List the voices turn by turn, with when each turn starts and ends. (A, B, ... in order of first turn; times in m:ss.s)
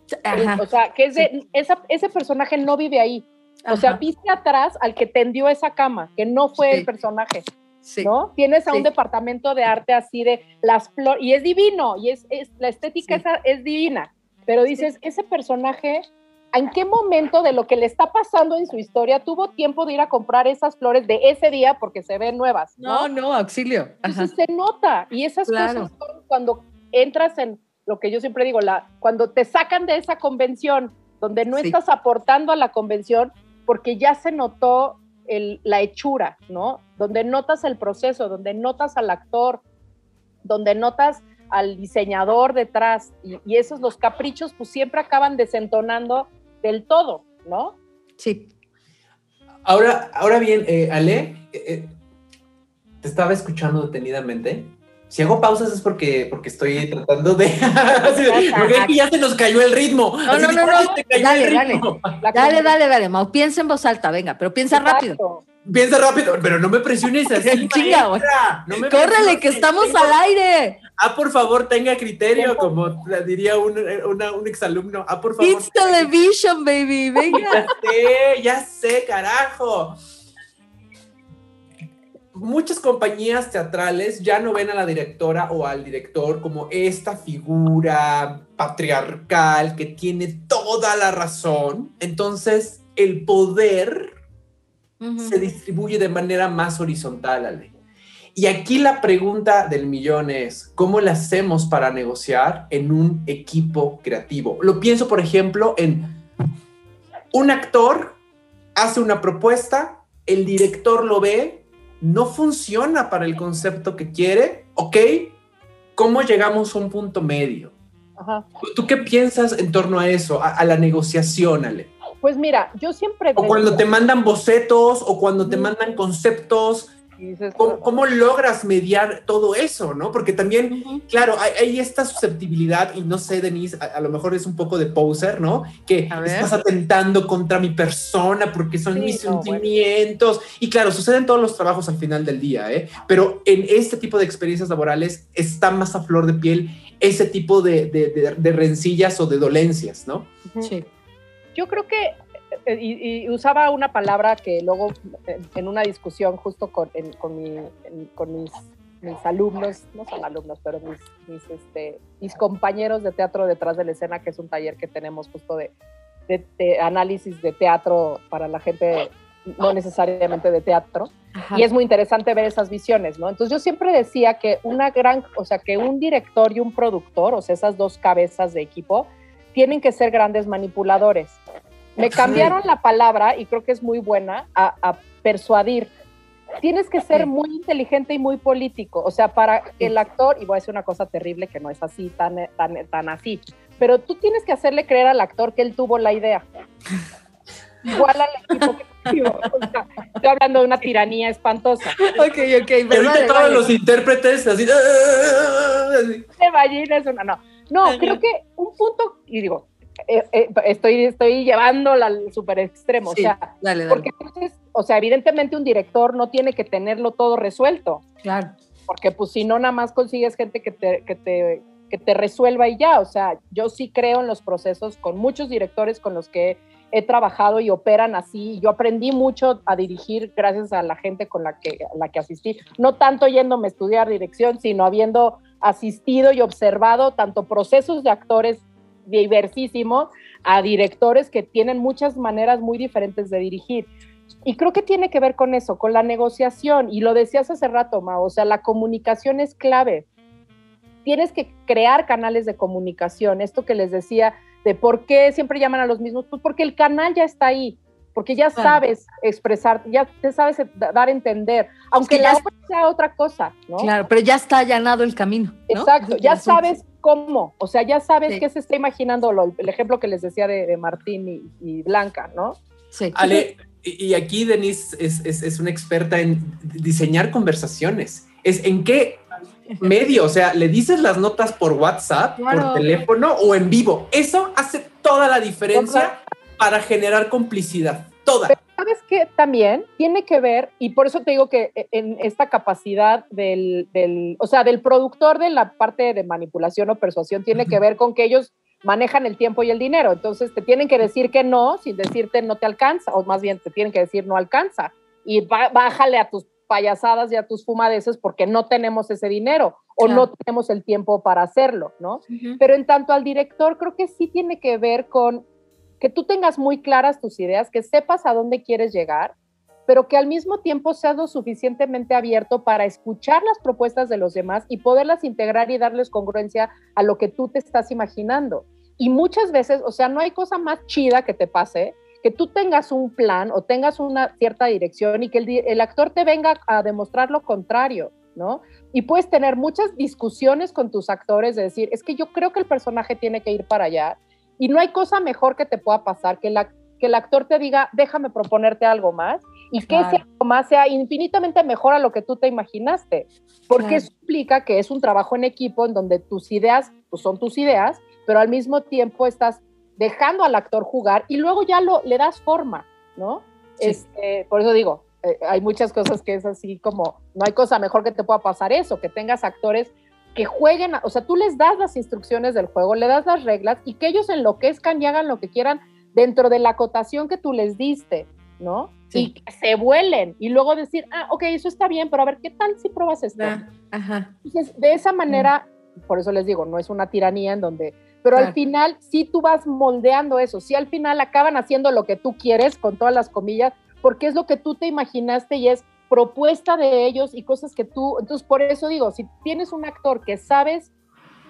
0:00.2-0:00.6 A
0:00.3-0:07.4 B
0:03.6-0:04.0 A
0:06.6-0:06.9 A
0:07.8-0:08.1 A
0:08.0-0:23.1 B
0:22.8-0:24.3 A
0:24.0-0:39.6 B
0:25.5-0:25.9 A
0:40.4-0:47.8 B
0:48.2-0:48.5 A
0:49.6-0:51.9 C
0:53.0-1:02.2 C
0:58.0-0:58.9 A
1:00.3-1:05.2 A
1:00.7-1:01.0 B
1:02.2-1:02.7 B
1:04.7-1:05.4 B
1:05.6-1:10.2 C
1:07.4-1:10.8 A
1:11.0-1:16.1 C
1:12.4-1:12.7 B
1:15.4-1:17.6 A
1:17.3-1:20.0 C
1:22.3-1:34.1 C
1:35.0-1:35.4 A
1:35.2-1:37.7 C
1:38.3-1:46.2 C
1:47.3-1:48.2 C
1:48.8-1:55.4 C
1:56.0-1:57.7 C
1:58.2-1:58.4 B
1:58.6-2:01.9 C
2:02.2-2:03.8 B
2:03.4-2:06.9 C
2:07.2-2:07.9 B
2:07.6-2:30.3 C
2:10.7-2:11.0 A
2:16.1-2:16.5 A
2:18.9-2:19.6 B
2:31.5-2:32.1 B
2:32.6-2:45.7 B
2:46.3-3:01.4 B
2:51.4-2:51.6 A
3:02.0-3:05.9 B
3:02.2-3:02.5 A
3:06.6-3:16.4 B
3:17.9-3:22.2 B
3:22.0-3:23.7 A
3:22.9-3:26.2 C
3:26.4-3:38.0 B
3:27.8-3:28.2 A
3:33.1-3:34.1 A
3:38.2-3:38.5 A
3:38.9-4:03.9 B
4:04.4-4:10.0 B
4:11.0-4:23.9 B
4:22.0-4:22.4 A
4:23.8-4:26.6 A
4:25.7-4:32.6 B
4:32.9-4:33.4 A
4:33.1-4:39.2 C
4:39.8-4:48.6 C
4:42.4-4:42.9 A
4:45.7-4:46.1 B
4:48.5-5:15.4 B
5:10.0-5:10.2 A
5:12.3-5:12.6 A
5:16.0-5:19.3 B
5:19.9-6:23.6 B
5:49.9-5:50.2 A
5:53.7-5:54.0 A
6:23.4-6:24.3 A
6:24.4-6:40.9 B